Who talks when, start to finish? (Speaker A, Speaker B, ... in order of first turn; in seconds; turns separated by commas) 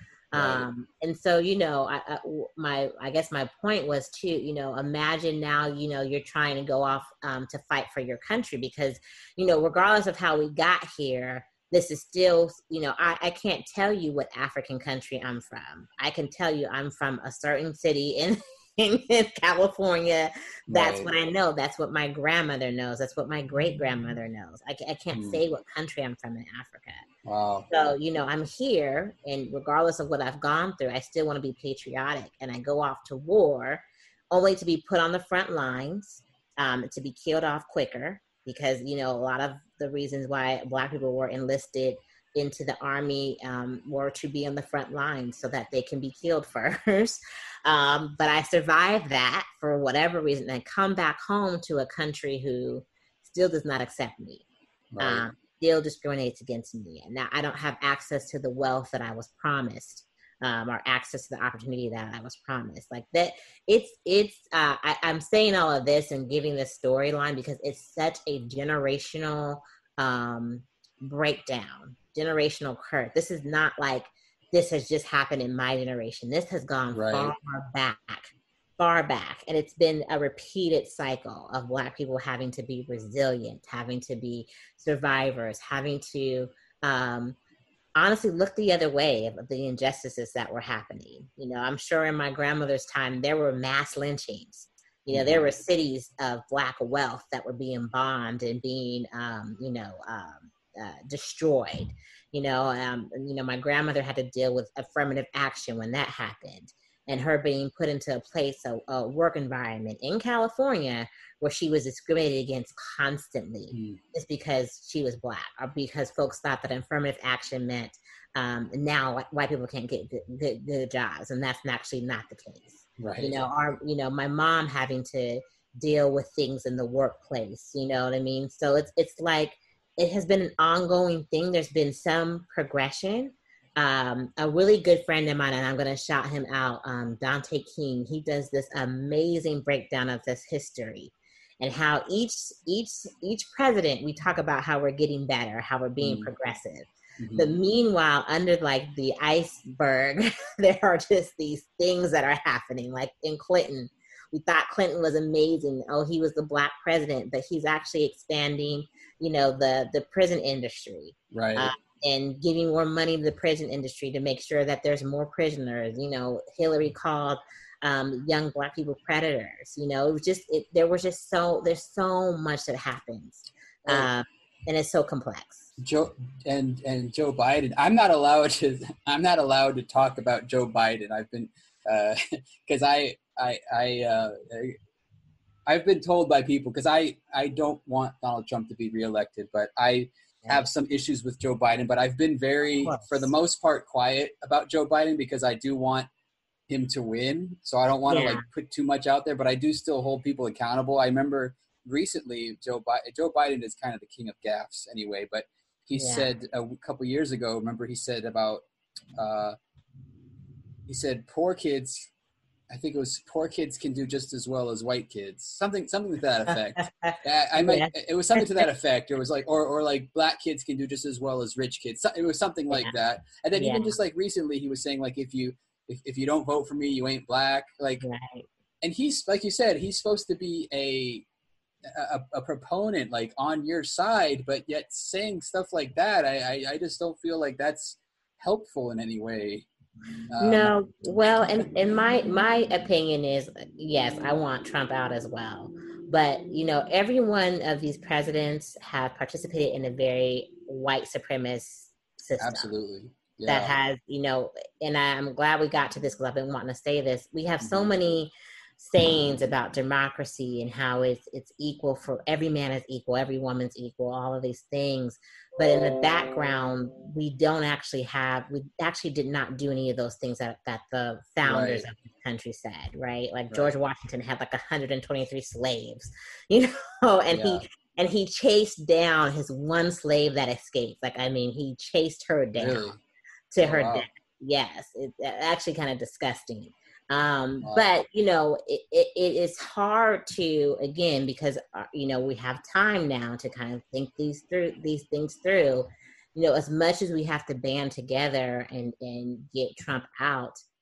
Speaker A: 0.3-27.0, Speaker B: 0.3-0.7, Speaker B: 20.7-21.1, Speaker B: 25.1-25.4, Speaker B: 27.2-27.7, Speaker A: 27.7-54.5, Speaker B: 54.9-55.3, Speaker A: 55.0-87.4, Speaker B: 76.9-77.3, Speaker A: 88.0-175.7, Speaker B: 95.1-95.5, Speaker B: 113.7-114.0, Speaker B: 123.0-123.3, Speaker B: 146.0-146.3, Speaker B: 147.2-147.5, Speaker B: 161.3-161.7, Speaker B: 175.8-184.8, Speaker B: 185.7-196.1, Speaker A: 192.8-193.3, Speaker B: 196.7-208.6, Speaker A: 198.1-198.4, Speaker A: 206.0-206.3, Speaker B: 209.2-209.6, Speaker B: 210.9-212.1, Speaker B: 212.7-228.0, Speaker A: 216.5-218.7, Speaker A: 223.5-224.0, Speaker A: 228.0-228.5, Speaker B: 228.8-231.2, Speaker B: 231.8-239.7, Speaker B: 240.3-240.7, Speaker A: 240.4-252.7, Speaker B: 252.4-253.8, Speaker A: 253.5-282.9, Speaker B: 257.6-257.9, Speaker B: 271.4-271.8, Speaker B: 277.3-277.6, Speaker B: 282.6-283.0, Speaker A: 283.5-300.6, Speaker B: 283.6-284.1, Speaker B: 287.6-287.9